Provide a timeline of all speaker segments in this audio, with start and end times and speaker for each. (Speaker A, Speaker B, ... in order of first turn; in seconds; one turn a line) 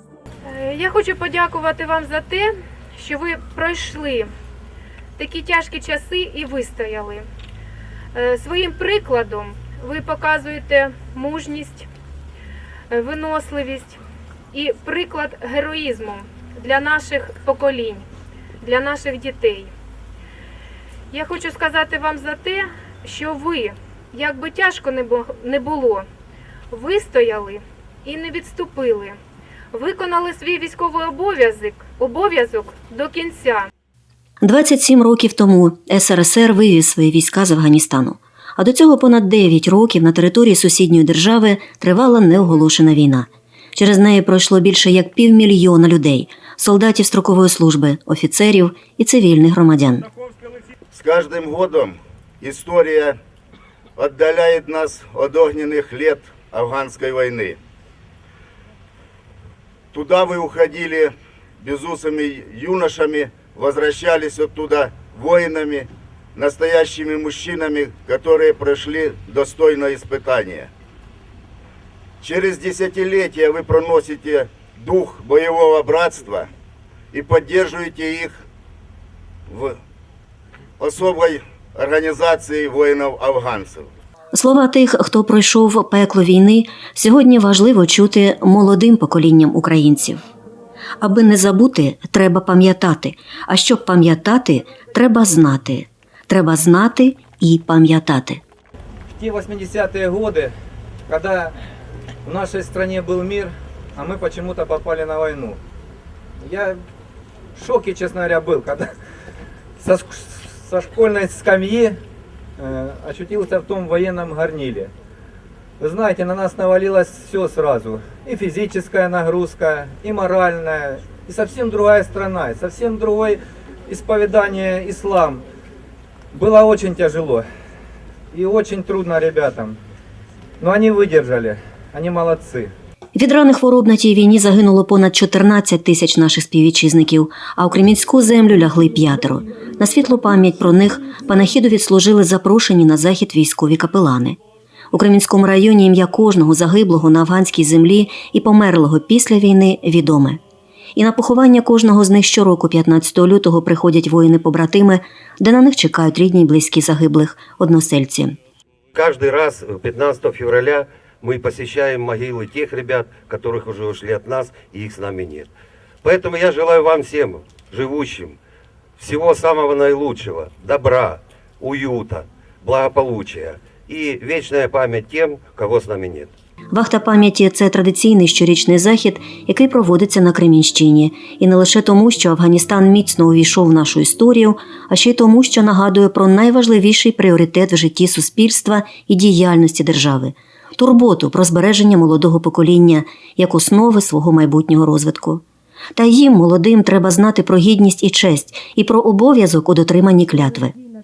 Speaker A: 0.5-4.3
Speaker A: 5.2-7.2
Speaker A: 8.1-11.9
Speaker A: 12.9-14.0
Speaker A: 14.5-18.1
Speaker A: 18.6-19.7
Speaker A: 21.1-26.0
Speaker A: 26.7-29.2
Speaker A: 29.7-33.7
Speaker B: 34.4-50.1
Speaker C: 50.9-53.2
Speaker C: 54.0-57.6
Speaker C: 59.9-70.7
Speaker C: 72.2-76.5
Speaker C: 77.1-78.4
Speaker C: 79.5-79.8
Speaker C: 80.8-83.9
Speaker B: 84.3-90.2
Speaker B: 91.0-98.4
Speaker D: 99.1-100.5
Speaker D: 101.1-101.5
Speaker D: 102.2-105.6
Speaker D: 106.4-106.8
Speaker D: 107.5-108.9
Speaker D: 109.8-112.0
Speaker D: 112.6-114.9
Speaker D: 115.8-125.4
Speaker D: 126.3-127.4
Speaker D: 128.3-129.8
Speaker D: 130.6-132.7
Speaker B: 133.1-144.4
Speaker B: 144.9-150.4
Speaker B: 150.9-158.3
Speaker E: 158.9-165.5
Speaker E: 166.0-168.4
Speaker E: 169.0-176.3
Speaker B: 176.7-195.4
Speaker B: 195.9-200.7